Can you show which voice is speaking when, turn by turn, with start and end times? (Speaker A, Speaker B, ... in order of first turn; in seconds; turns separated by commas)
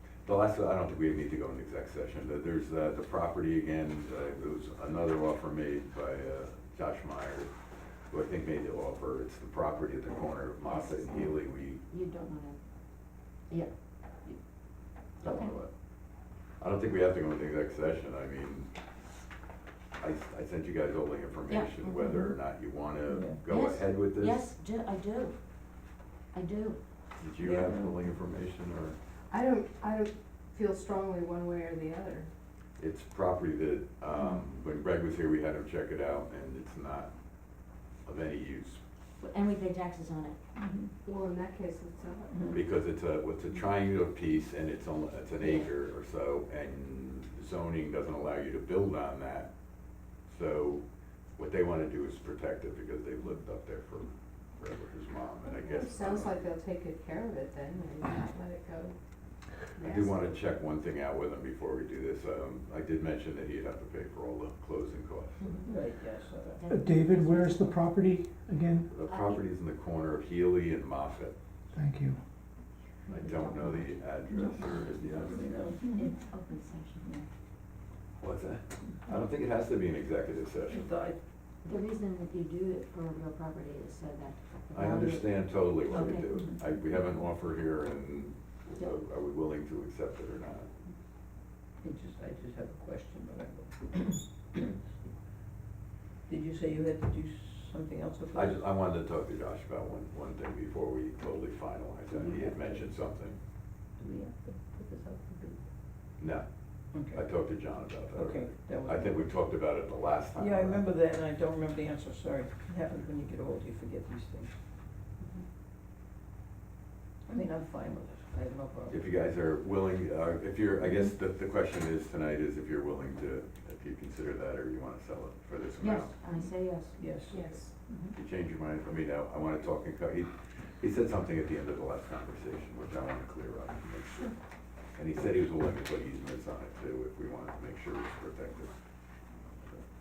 Speaker A: 0.2-7.5, Speaker A: 8.1-11.8, Speaker B: 10.6-15.5, Speaker A: 15.2-16.0, Speaker A: 16.6-18.7, Speaker A: 20.0-24.5, Speaker B: 21.5-22.3, Speaker C: 23.1-23.4, Speaker B: 23.4-26.8, Speaker A: 27.1-29.0, Speaker C: 27.4-27.9, Speaker D: 29.3-32.3, Speaker A: 32.8-37.1, Speaker A: 38.0-38.8, Speaker B: 39.2-40.4, Speaker C: 40.5-40.9, Speaker D: 41.0-42.5, Speaker C: 42.3-42.6, Speaker A: 42.5-56.4, Speaker B: 45.4-45.7, Speaker D: 55.4-59.0, Speaker D: 59.7-60.4, Speaker A: 59.8-65.6, Speaker D: 65.4-65.7, Speaker C: 65.6-66.7, Speaker B: 66.5-67.8, Speaker E: 66.7-68.9, Speaker A: 68.9-71.3, Speaker B: 69.1-69.4, Speaker E: 71.7-72.2, Speaker B: 73.1-74.7, Speaker A: 73.1-75.5, Speaker C: 74.8-76.1, Speaker B: 75.8-77.2, Speaker A: 78.2-80.9, Speaker C: 80.7-81.2, Speaker B: 81.6-86.3, Speaker A: 84.7-90.7, Speaker C: 85.9-86.6, Speaker C: 91.8-94.8, Speaker C: 96.3-98.6, Speaker A: 98.3-103.4, Speaker C: 102.1-102.9, Speaker C: 104.0-105.7, Speaker A: 106.2-110.8, Speaker C: 106.9-107.3, Speaker C: 108.1-109.3, Speaker C: 110.3-114.5, Speaker C: 117.2-119.0, Speaker A: 118.9-126.1, Speaker B: 125.8-127.0, Speaker C: 126.3-128.1, Speaker D: 127.3-127.7, Speaker A: 128.1-134.3, Speaker A: 134.9-138.7